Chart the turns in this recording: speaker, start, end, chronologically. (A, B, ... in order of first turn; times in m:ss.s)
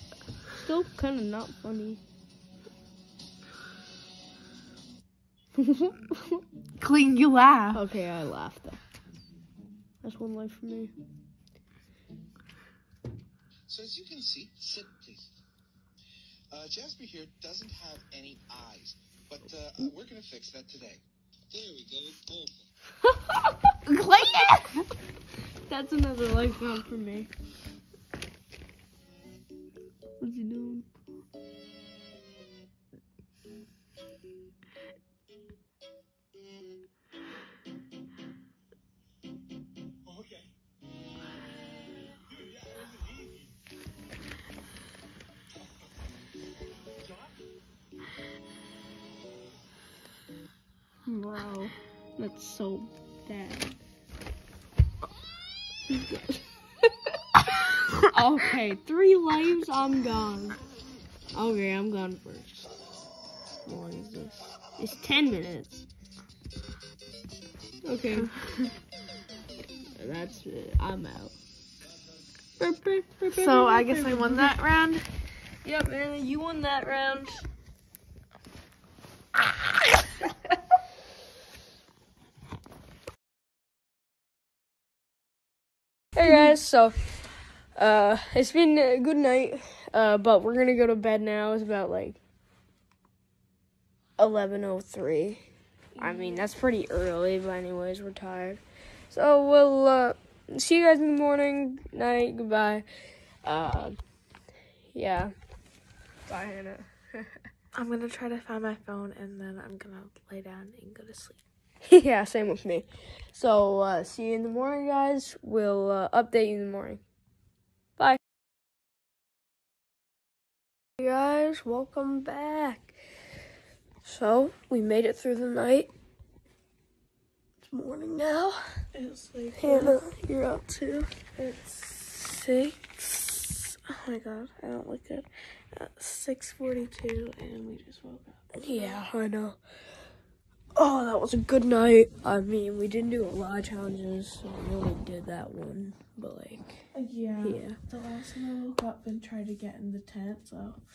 0:00.5-0:02.0 A
0:05.6-0:06.4 A
0:06.8-0:07.8 B
0:07.7-0:08.8 A
0:10.0-0:10.9 A
0:13.7-0:15.3 C
0:16.5-0:22.6 C
0:23.1-0:23.8 A
0:23.9-0:24.8 B
0:25.7-0:27.3 A
0:30.2-0:30.9 A
0:51.1-0:53.7 A
0:55.9-0:56.4 A
0:58.0-1:00.6 A
1:01.3-1:02.7 A
1:03.6-1:05.8 A
1:07.8-1:08.3 A
1:08.2-1:08.7 B
1:10.0-1:11.4 A
1:12.6-1:14.6 A
1:13.3-1:15.1 B
1:15.6-1:17.4 A
1:26.2-1:27.0 A
1:27.8-1:32.2 A
1:34.2-1:35.4 A
1:36.0-1:36.5 B
1:36.0-1:42.8 A
1:43.4-1:44.0 A
1:44.9-1:45.3 A
1:46.3-1:47.5 A
1:47.7-1:51.4 B
1:51.9-1:57.0 A
2:01.0-2:03.0 A
2:04.0-2:05.9 A
2:07.6-2:08.6 A
2:08.9-2:10.0 B
2:09.6-2:11.1 A
2:11.4-2:13.0 B
2:13.0-2:15.2 A
2:14.2-2:14.6 B
2:15.7-2:19.0 B
2:18.5-2:19.6 A
2:20.8-2:26.8 A
2:26.9-2:30.8 B
2:27.4-2:27.8 A